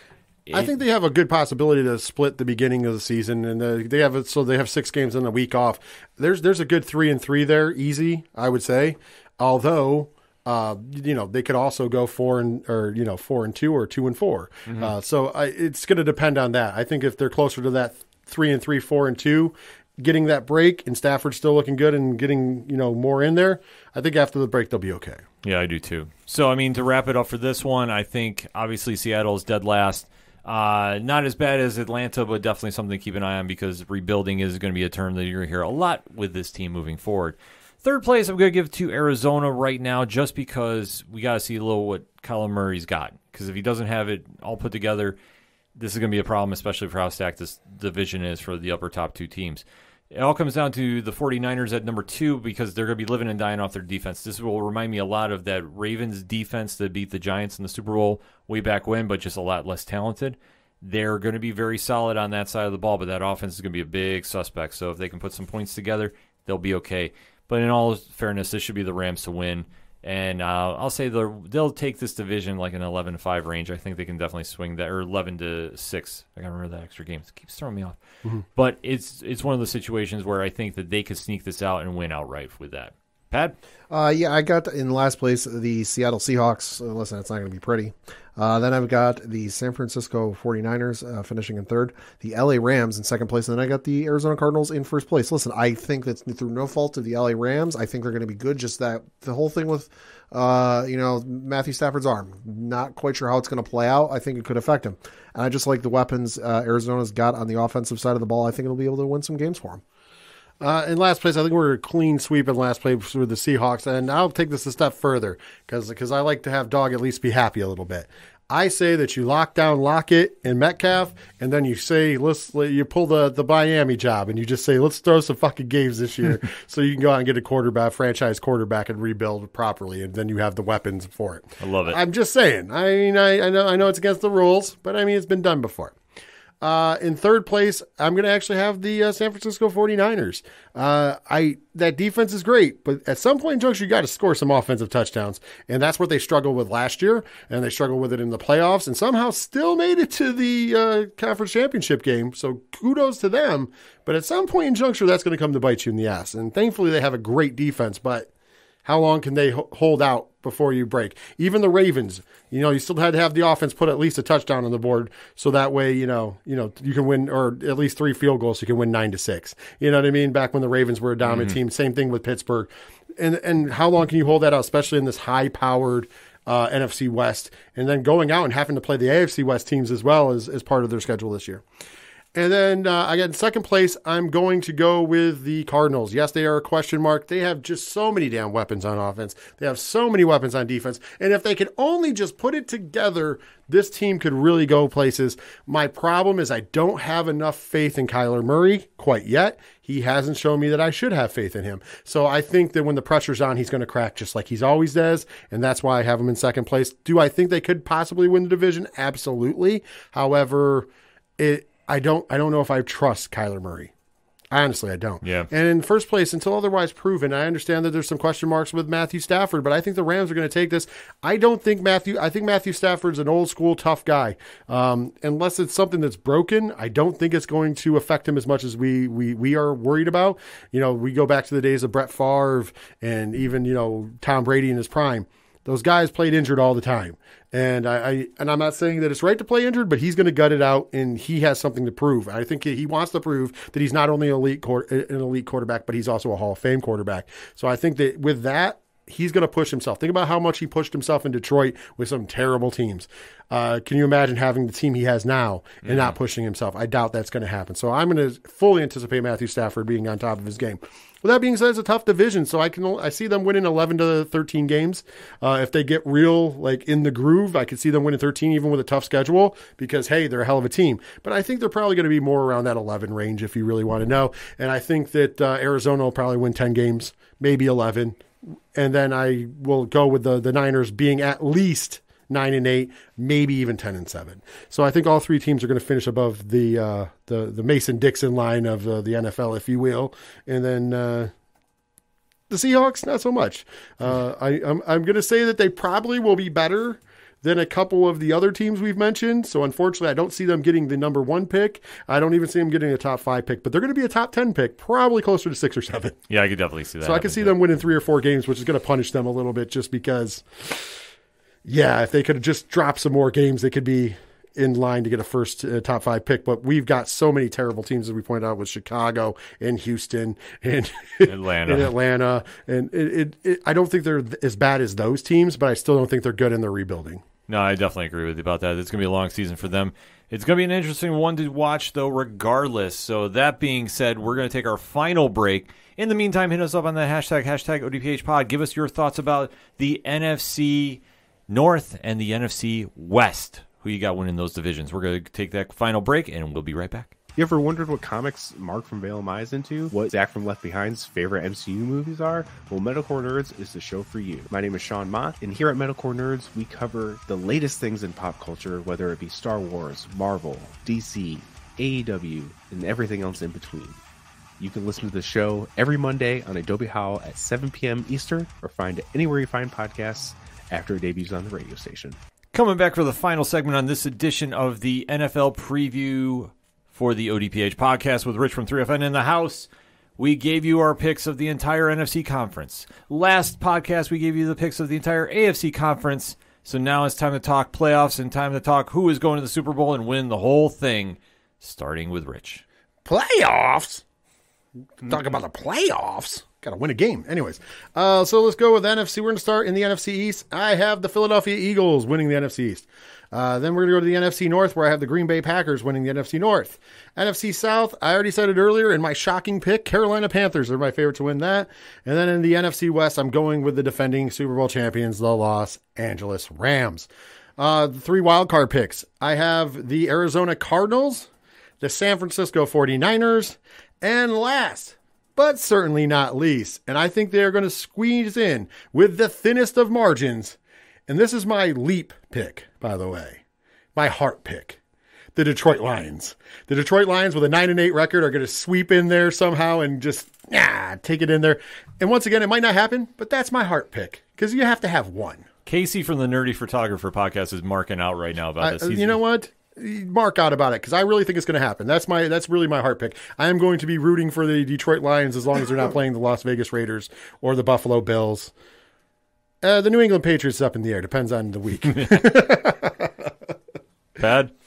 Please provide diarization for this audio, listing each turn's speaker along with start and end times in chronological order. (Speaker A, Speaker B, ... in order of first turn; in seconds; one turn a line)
Speaker A: 0.5-0.7
Speaker B: 0.5-25.2
Speaker A: 14.7-14.9
Speaker A: 25.4-45.2
Speaker A: 45.8-78.0
Speaker A: 78.5-83.5
Speaker C: 83.9-109.8
Speaker B: 110.6-135.9
Speaker A: 131.6-132.0
Speaker B: 136.6-158.3
Speaker B: 158.8-181.6
Speaker A: 171.2-171.6
Speaker B: 182.3-210.9
Speaker B: 211.4-213.9
Speaker B: 214.5-278.2
Speaker A: 215.2-215.5
Speaker A: 255.8-256.1
Speaker B: 278.7-291.3
Speaker B: 292.5-306.2
Speaker A: 306.3-307.5
Speaker B: 307.0-311.0
Speaker B: 311.6-327.2
Speaker A: 321.2-321.9
Speaker A: 327.5-347.1
Speaker D: 347.4-364.0
Speaker D: 364.6-372.2
Speaker A: 372.5-392.6
Speaker B: 393.0-394.0
Speaker B: 395.0-421.3
Speaker B: 421.8-430.6
Speaker B: 431.1-433.4
Speaker B: 433.9-434.8
Speaker B: 435.3-445.4
Speaker A: 445.6-449.2
Speaker B: 448.6-458.5
Speaker B: 459.6-463.1
Speaker A: 464.2-464.5